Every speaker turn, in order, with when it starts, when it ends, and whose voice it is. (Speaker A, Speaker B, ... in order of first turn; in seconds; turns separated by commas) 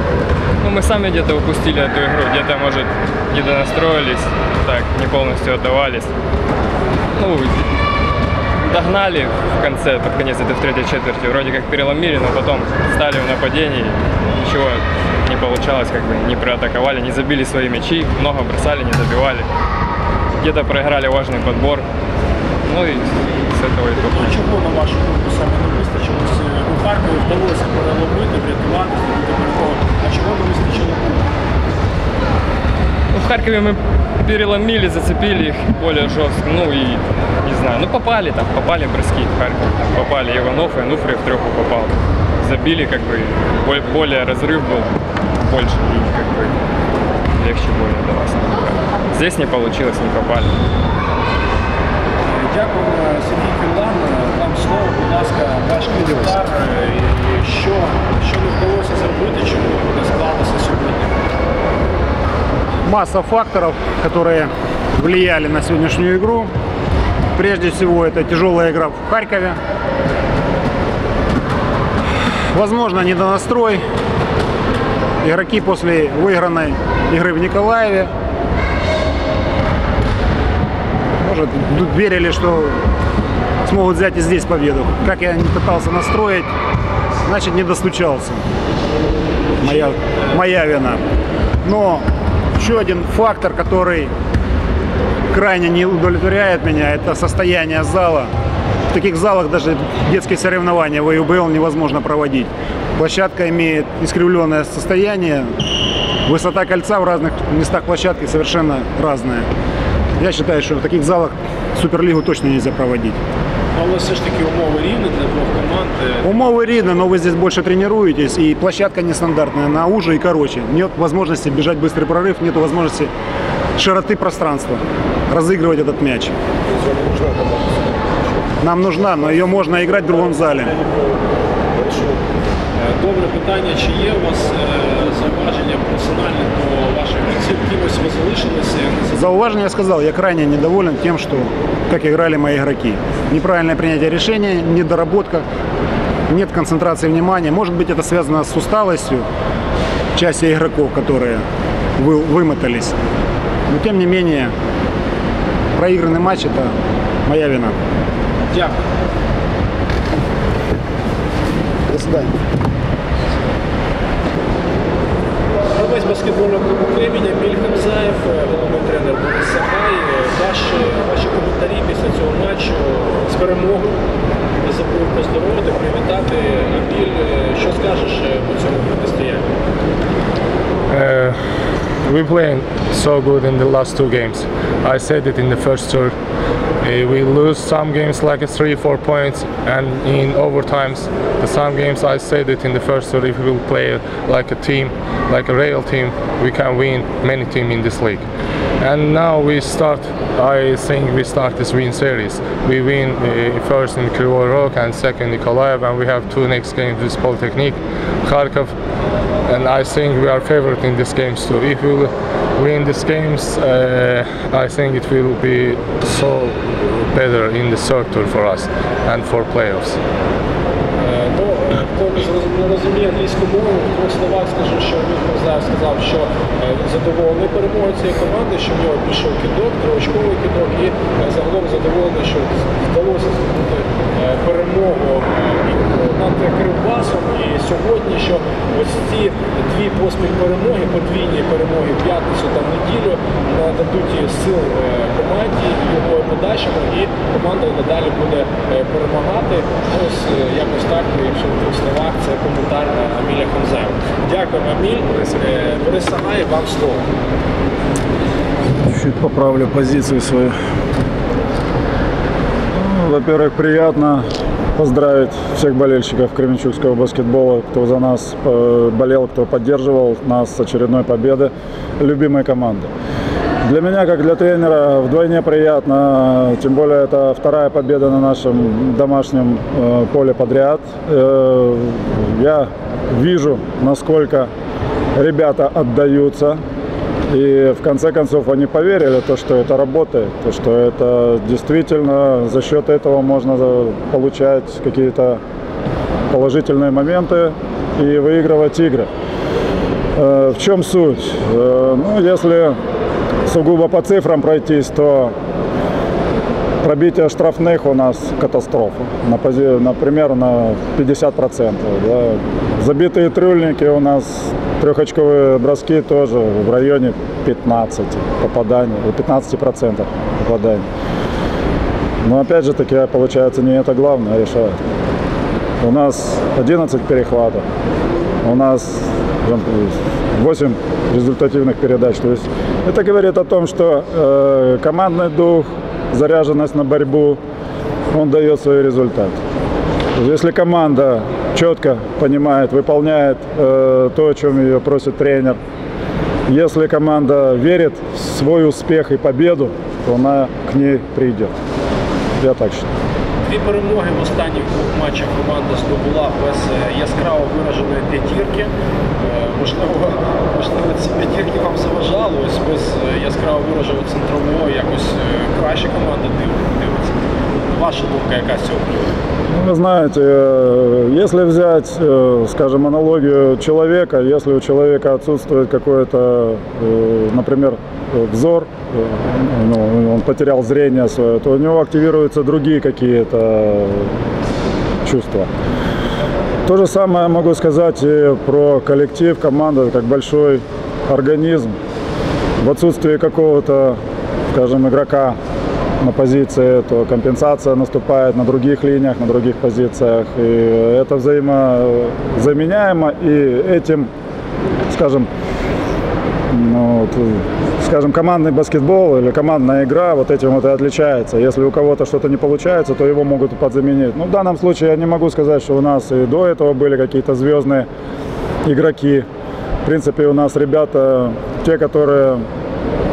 Speaker A: 0.6-6.1, Speaker A: 7.2-7.6, Speaker A: 8.6-19.5, Speaker A: 20.4-21.9, Speaker A: 22.7-24.4, Speaker B: 24.1-31.3, Speaker A: 33.1-46.6, Speaker A: 47.4-50.5, Speaker B: 52.2-61.2, Speaker C: 62.9-66.5, Speaker C: 67.3-69.6, Speaker C: 72.5-73.8, Speaker C: 75.2-78.1, Speaker C: 81.2-82.8, Speaker C: 83.6-86.5, Speaker C: 87.3-88.4, Speaker C: 89.6-91.0, Speaker C: 91.6-92.1, Speaker C: 92.6-94.1, Speaker C: 95.3-98.3, Speaker C: 98.9-105.5, Speaker C: 106.3-109.5, Speaker C: 110.2-113.2, Speaker B: 113.8-116.5, Speaker C: 116.2-123.1, Speaker C: 123.8-126.3, Speaker C: 128.6-130.8, Speaker B: 132.8-139.5, Speaker C: 139.1-145.4, Speaker C: 146.3-149.3, Speaker C: 150.2-151.4, Speaker C: 152.0-153.0, Speaker C: 153.7-154.5, Speaker C: 155.8-156.7, Speaker C: 157.3-157.8, Speaker B: 158.5-158.8, Speaker C: 161.9-162.3, Speaker B: 165.7-174.0, Speaker B: 174.6-179.5, Speaker D: 180.9-181.4, Speaker D: 182.1-186.1, Speaker D: 186.8-198.2, Speaker D: 198.8-208.7, Speaker D: 209.5-220.0, Speaker B: 221.0-257.0, Speaker E: 258.9-260.6, Speaker E: 262.8-264.2, Speaker E: 264.8-272.9, Speaker E: 273.6-284.5, Speaker E: 285.1-286.6, Speaker E: 287.3-295.4, Speaker E: 296.3-299.1, Speaker E: 300.2-302.8, Speaker E: 303.5-305.3, Speaker E: 306.8-320.9, Speaker E: 322.2-324.8, Speaker E: 325.8-327.6, Speaker E: 328.4-337.4, Speaker E: 338.1-339.4, Speaker E: 340.2-345.6, Speaker E: 346.5-351.5, Speaker E: 352.4-352.9, Speaker B: 353.4-368.9, Speaker E: 369.5-384.1, Speaker E: 385.0-385.5, Speaker E: 386.7-391.8, Speaker E: 392.6-394.0, Speaker E: 394.5-395.4, Speaker E: 396.0-404.1, Speaker E: 404.9-405.3, Speaker E: 406.5-417.9, Speaker E: 418.6-419.2, Speaker E: 419.8-422.4